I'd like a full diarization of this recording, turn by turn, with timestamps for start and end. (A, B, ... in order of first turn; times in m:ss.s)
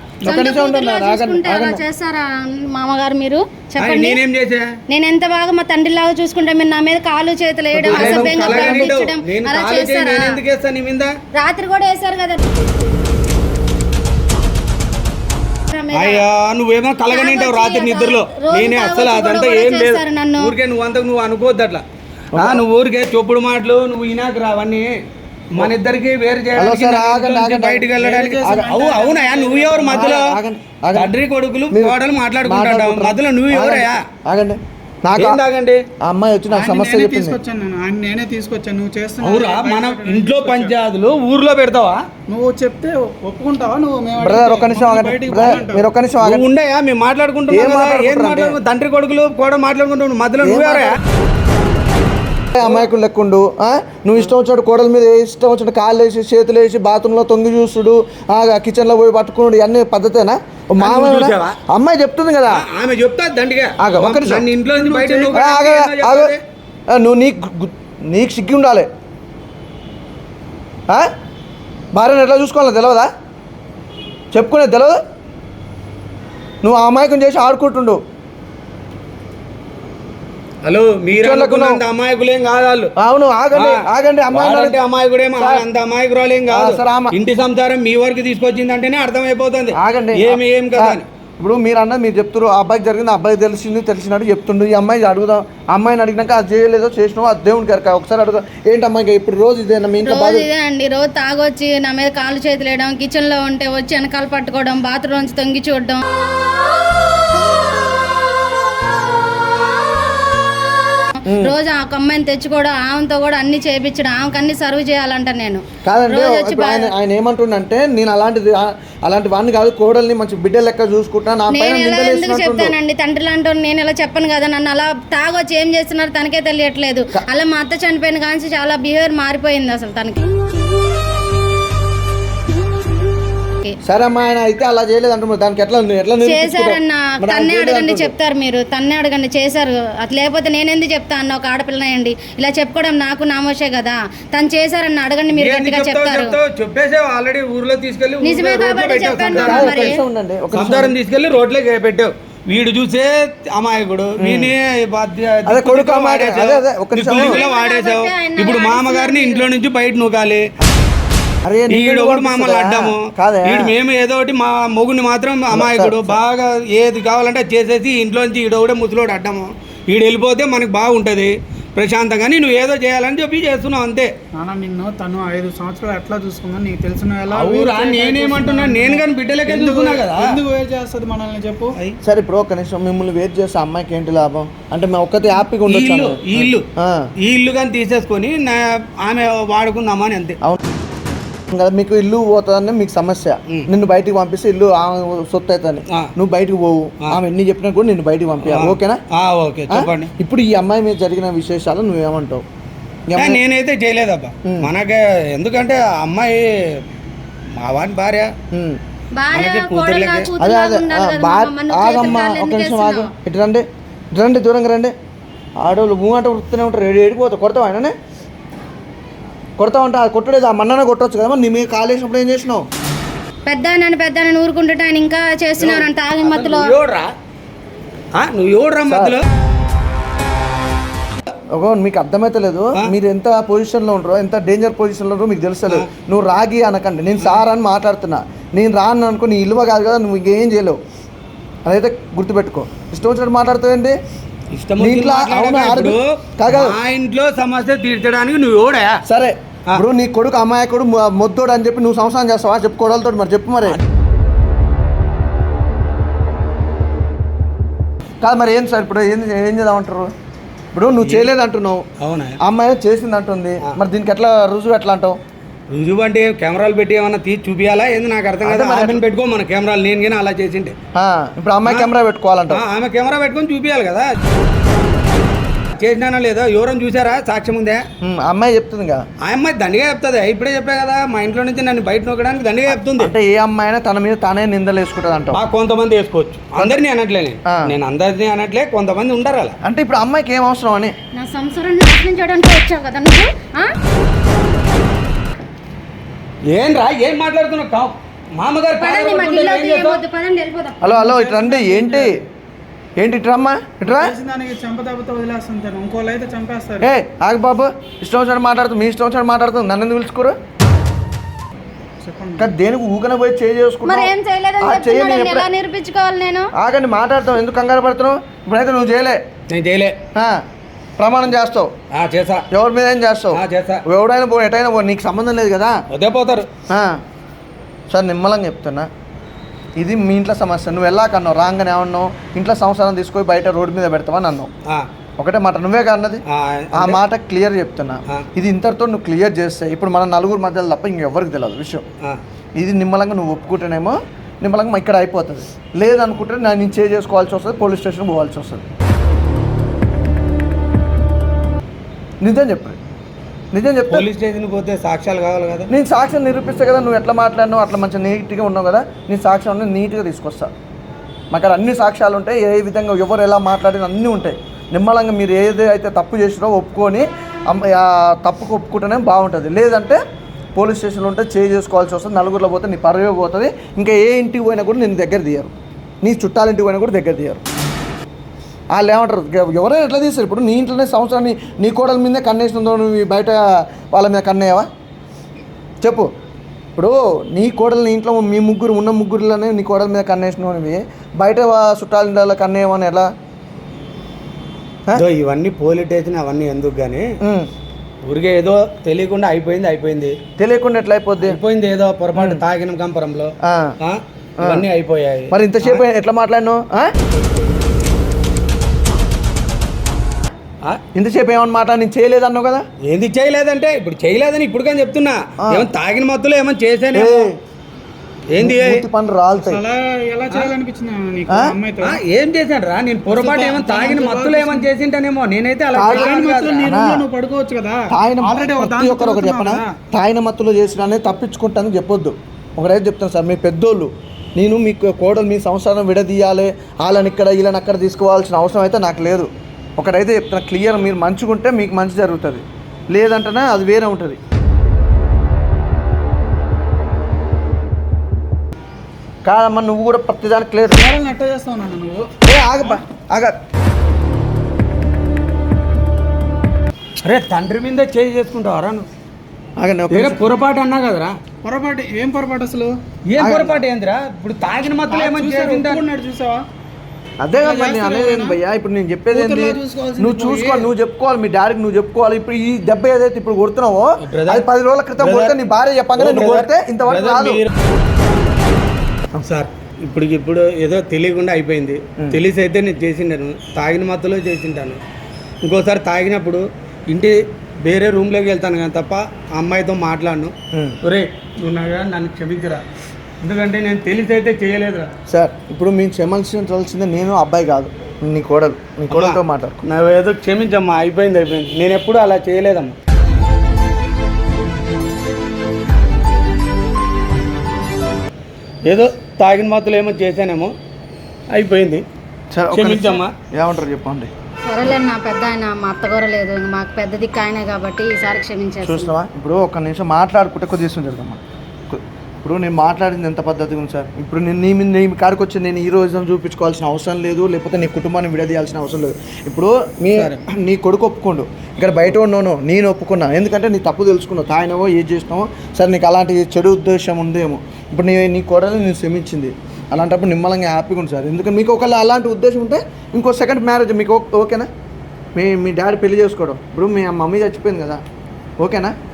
0:00.2-0:01.8 A
0:00.2-0:04.2 B
0:03.8-0:04.7 C
0:04.9-0:10.3 B
0:07.8-0:11.1 C
0:07.9-0:08.9 A
0:11.3-0:12.4 B
0:15.7-0:16.2 B
0:15.9-0:24.9 C
0:17.1-0:20.5 B
0:22.3-0:22.6 A
0:25.6-0:30.4 C
0:26.6-0:27.9 A
0:28.0-0:30.2 D
0:28.4-0:28.7 A
0:29.9-0:31.1 A
0:30.9-0:34.0 C
0:31.7-0:35.4 A
0:35.2-0:35.8 C
0:36.0-0:37.4 A
0:36.5-0:40.7 D
0:39.2-0:42.0 C
0:42.3-0:45.9 D
0:44.2-0:46.4 A
0:46.2-0:51.0 C
0:47.5-0:48.6 A
0:50.4-0:51.0 A
0:52.5-1:02.6 A
0:52.6-0:52.9 C
1:00.8-1:01.6 C
1:02.5-1:06.4 C
1:03.8-1:04.5 A
1:04.7-1:05.4 D
1:05.3-1:06.4 A
1:06.9-1:08.9 A
1:11.9-1:13.1 A
1:14.3-1:15.0 A
1:16.6-1:18.0 A
1:20.6-1:22.9 C
1:21.1-1:21.8 A
1:23.0-1:24.8 A
1:23.5-1:23.8 C
1:24.3-1:31.0 C
1:25.4-1:25.6 A
1:26.5-1:27.2 A
1:29.7-1:40.5 A
1:40.0-1:46.0 B
1:51.2-1:56.9 B
1:51.3-1:51.6 A
1:55.8-2:02.8 A
2:01.5-2:10.3 B
2:13.8-2:18.1 A
2:16.2-2:26.4 B
2:25.3-2:30.0 C
2:28.2-2:30.0 B
2:29.3-2:30.9 A
2:30.5-2:40.5 C
2:34.2-2:34.5 A
2:35.5-2:37.4 A
2:37.1-2:39.5 B
2:41.4-2:43.7 A
2:41.7-2:54.1 C
2:45.5-2:46.2 A
2:54.3-3:01.8 D
2:57.3-3:00.3 C
3:02.0-3:07.0 A
3:05.7-3:06.7 C
3:07.2-3:10.4 C
3:11.5-3:19.0 A
3:18.4-3:20.1 C
3:19.7-3:22.4 A
3:23.1-3:23.4 A
3:23.2-3:26.5 C
3:27.6-3:28.3 C
3:28.5-3:28.8 A
3:29.1-3:33.1 B
3:29.3-3:30.3 C
3:30.4-3:34.9 A
3:35.6-3:37.9 A
3:39.6-3:42.6 A
3:43.5-3:46.7 B
3:45.6-3:47.1 C
3:48.2-3:49.2 C
3:48.9-3:49.2 A
3:51.5-4:00.8 A
4:01.6-4:04.0 A
4:04.5-4:09.0 C
4:04.8-4:06.8 A
4:09.0-4:13.8 A
4:18.2-4:20.1 A
4:20.7-4:21.9 A
4:21.0-4:21.3 C
4:22.0-4:22.4 C
4:22.4-4:25.2 A
4:25.7-4:30.8 C
4:28.4-4:29.0 A
4:31.0-4:32.6 A
4:31.6-4:31.9 C
4:32.5-4:34.1 C
4:35.8-4:37.8 C
4:38.0-4:39.0 A
4:39.2-4:43.1 C
4:42.7-4:45.4 A
4:45.3-4:49.5 C
4:49.6-4:51.0 A
4:51.1-4:53.7 B
4:56.5-5:00.0 C
4:58.8-5:00.8 B
5:00.8-5:02.1 A
5:00.8-5:02.1 D
5:03.0-5:04.1 A
5:03.8-5:06.9 D
5:06.8-5:10.4 A
5:12.0-5:12.5 D
5:12.4-5:15.5 A
5:13.8-5:16.5 B
5:16.6-5:19.2 A
5:19.5-5:20.0 C
5:20.1-5:20.4 A
5:21.0-5:21.7 A
5:21.9-5:22.4 C
5:22.5-5:25.8 A
5:23.3-5:23.8 C
5:25.9-5:26.5 C
5:26.7-5:27.0 A
5:27.9-5:28.9 A
5:29.8-5:34.5 A
5:35.2-5:36.2 A
5:36.3-5:37.0 C
5:36.7-5:41.8 A
5:42.6-5:48.6 A
5:52.2-5:52.8 A
5:53.5-5:54.1 A
5:53.9-5:55.7 C
5:55.7-6:00.5 A
6:01.3-6:10.0 A
6:10.5-6:17.4 A
6:18.8-6:24.7 A
6:25.8-6:26.1 A
6:26.8-6:33.1 A
6:34.9-6:37.1 C
6:37.2-6:37.5 A
6:38.1-6:40.1 C
6:40.4-6:41.4 A
6:41.2-6:45.8 C
6:42.1-6:42.4 A
6:43.4-6:43.8 A
6:44.4-6:44.6 A
6:45.3-6:46.9 A
6:50.9-6:52.6 A
6:52.8-6:57.3 C
6:55.4-6:55.7 A
6:56.9-6:57.4 A
6:58.3-6:58.9 C
6:58.4-6:59.6 A
6:59.4-7:02.0 D
7:01.3-7:01.5 A
7:01.8-7:06.6 C
7:03.1-7:04.7 D
7:05.8-7:07.1 A
7:05.9-7:09.7 D
7:07.9-7:24.2 A
7:29.2-7:30.8 A
7:30.8-7:32.1 D
7:32.2-7:33.3 A
7:37.0-7:38.9 C
7:39.6-7:40.2 A
7:39.9-7:41.1 C
7:41.4-7:42.7 D
7:43.1-7:45.8 C
7:43.2-7:43.6 A
7:44.9-7:46.4 D
7:47.2-7:57.4 A
7:47.4-7:48.4 D
7:49.1-7:50.7 D
7:54.1-7:55.4 C
7:56.0-7:57.5 C
7:59.2-8:04.8 C
8:05.4-8:12.6 C
8:13.2-8:14.9 C
8:15.1-8:19.6 A
8:18.9-8:22.8 C
8:28.7-8:30.5 C
8:31.3-8:31.8 C
8:32.3-8:34.1 A
8:32.5-8:33.1 C
8:34.4-8:38.9 B
8:38.6-9:04.5 A
9:05.1-9:07.8 A
9:08.4-9:08.7 A